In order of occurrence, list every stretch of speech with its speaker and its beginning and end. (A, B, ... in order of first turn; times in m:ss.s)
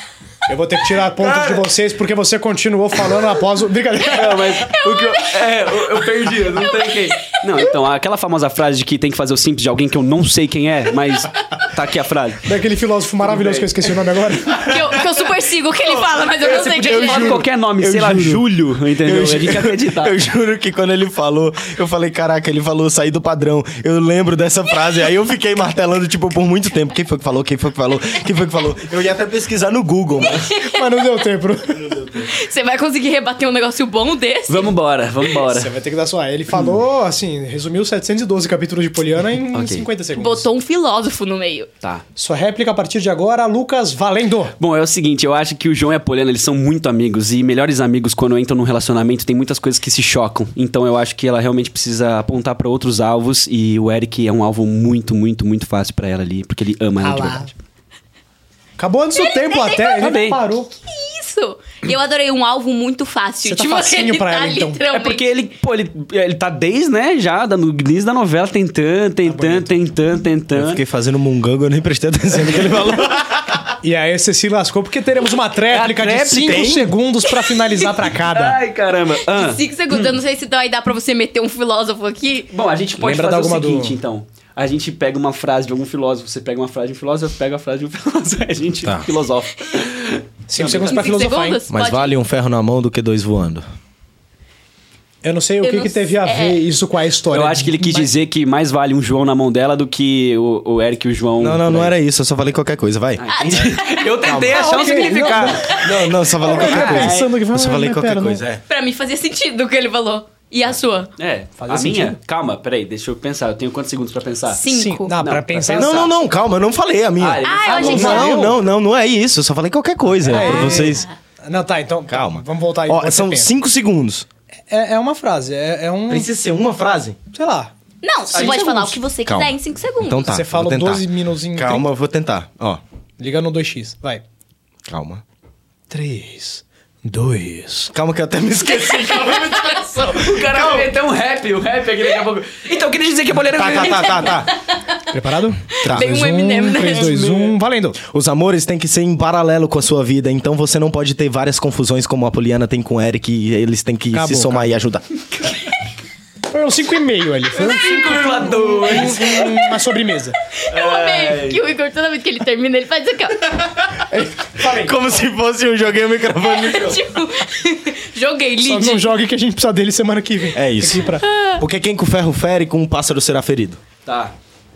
0:00.5-0:04.6 A
0:04.1-0:12.5 B
0:04.8-0:05.2 C
0:06.6-0:07.6 C
0:12.4-0:14.7 A
0:13.2-0:13.8 B
0:14.6-0:17.4 C
0:15.8-0:18.4 D
0:16.5-0:20.2 B
0:19.0-0:30.5 D
0:30.5-0:31.2 C
0:30.5-0:31.8 A
0:31.7-0:32.3 D
0:32.2-0:34.7 C
0:34.5-0:35.7 B
0:35.5-0:40.4 A
0:39.5-0:39.9 B
0:40.1-0:41.7 C
0:42.2-0:44.5 A
0:44.6-0:57.5 B
0:57.0-0:57.5 A
0:58.8-1:00.7 A
0:59.1-1:05.3 C
1:00.0-1:00.4 B
1:03.4-1:04.8 A
1:04.9-1:10.8 B
1:09.2-1:09.7 A
1:10.5-1:13.7 D
1:13.8-1:18.6 A
1:15.7-1:16.6 B
1:16.4-1:16.9 D
1:18.3-1:20.1 B
1:19.3-1:22.5 C
1:22.5-1:31.1 B
1:23.0-1:24.0 A
1:30.5-1:31.6 A
1:30.6-1:32.2 C
1:31.7-1:33.6 D
1:35.2-1:38.1 A
1:35.6-1:36.7 C
1:37.3-1:41.9 B
1:41.4-1:43.7 D
1:43.2-1:45.8 B
1:43.3-1:46.0 C
1:44.2-1:44.6 D
1:44.4-1:48.4 A
1:45.6-1:48.6 D
1:46.4-1:47.3 B
1:48.7-1:51.1 C
1:51.2-1:54.6 B
1:51.6-1:52.2 A
1:54.5-1:55.2 C
1:54.7-1:56.1 A
1:55.2-1:56.1 B
1:55.7-2:01.0 D
1:57.2-1:58.2 B
1:57.4-1:58.4 C
1:57.7-1:58.6 A
2:00.2-2:03.5 A
2:00.3-2:01.1 C
2:02.1-2:04.2 D
2:04.7-2:06.3 A
2:06.1-2:07.2 D
2:07.3-2:07.7 A
2:08.0-2:10.4 C
2:08.3-2:09.0 A
2:09.2-2:12.8 D
2:10.2-2:11.9 A
2:13.2-2:14.2 A
2:14.9-2:15.2 D
2:15.9-2:17.9 A
2:17.9-2:20.9 D
2:18.9-2:19.8 C
2:20.0-2:24.4 B
2:23.5-2:24.5 D
2:25.1-2:28.0 A
2:25.8-2:26.1 D
2:25.8-2:27.3 C
2:27.0-2:27.6 B
2:28.0-2:35.0 D
2:34.1-2:34.7 A
2:36.5-2:40.4 A
2:37.6-2:39.4 B
2:37.6-2:39.8 C
2:40.5-2:43.6 C
2:40.7-2:41.6 B
2:44.1-2:47.0 D
2:44.4-2:44.9 A
2:46.4-2:49.2 C
2:48.6-2:51.2 A
2:50.5-2:53.8 D
2:51.2-2:51.6 C
2:54.0-2:54.3 B